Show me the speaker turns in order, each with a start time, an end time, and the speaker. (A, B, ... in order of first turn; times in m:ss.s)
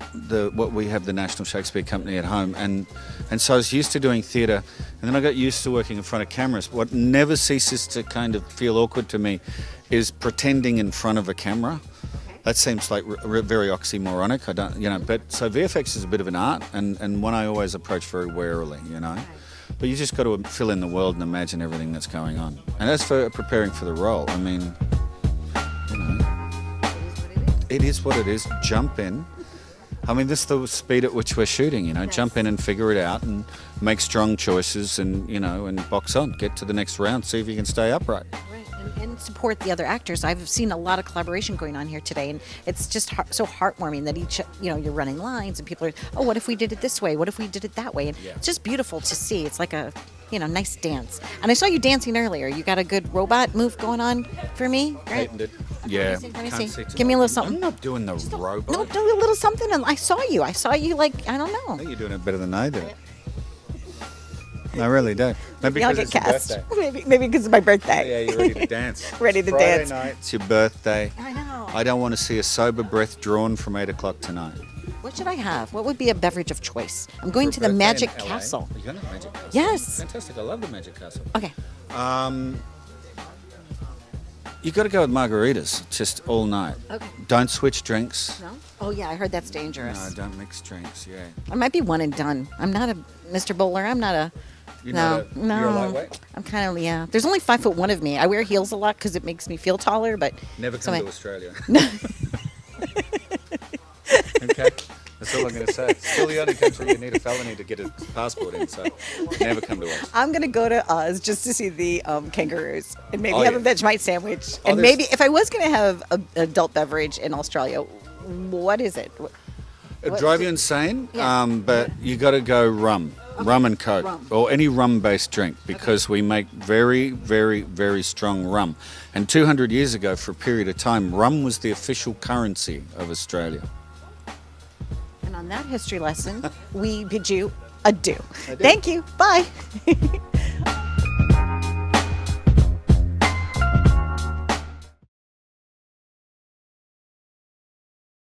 0:00.1-0:11.8 A
0:12.4-0:24.8 A
0:25.9-0:26.3 A
0:26.9-0:27.6 B
0:27.7-0:29.3 A
0:30.0-0:38.3 A
0:32.0-0:32.4 B
0:38.4-0:55.3 B
0:55.1-0:59.0 A
0:55.8-0:57.6 B
0:58.2-1:01.9 B
1:01.8-1:02.9 A
1:04.7-1:06.6 A
1:05.7-1:10.1 B
1:07.9-1:11.2 A
1:11.2-1:11.8 B
1:11.7-1:14.6 A
1:15.0-1:18.7 B
1:17.4-1:21.3 A
1:19.5-1:20.0 B
1:21.9-1:22.6 A
1:24.6-1:28.4 A
1:28.4-1:30.1 B
1:29.6-1:31.4 A
1:31.5-1:34.3 B
1:34.8-1:36.2 A
1:34.9-1:41.1 B
1:40.6-1:42.0 A
1:41.7-1:42.0 B
1:44.1-1:44.5 B
1:44.4-1:50.1 A
1:46.1-1:47.1 B
1:48.9-1:59.3 B
1:53.3-1:53.7 A
1:54.6-1:55.1 A
2:00.0-2:13.7 A
2:00.1-2:00.5 B
2:01.1-2:01.9 B
2:03.4-2:04.3 B
2:05.7-2:06.0 B
2:15.2-2:20.4 B
2:18.5-2:18.8 A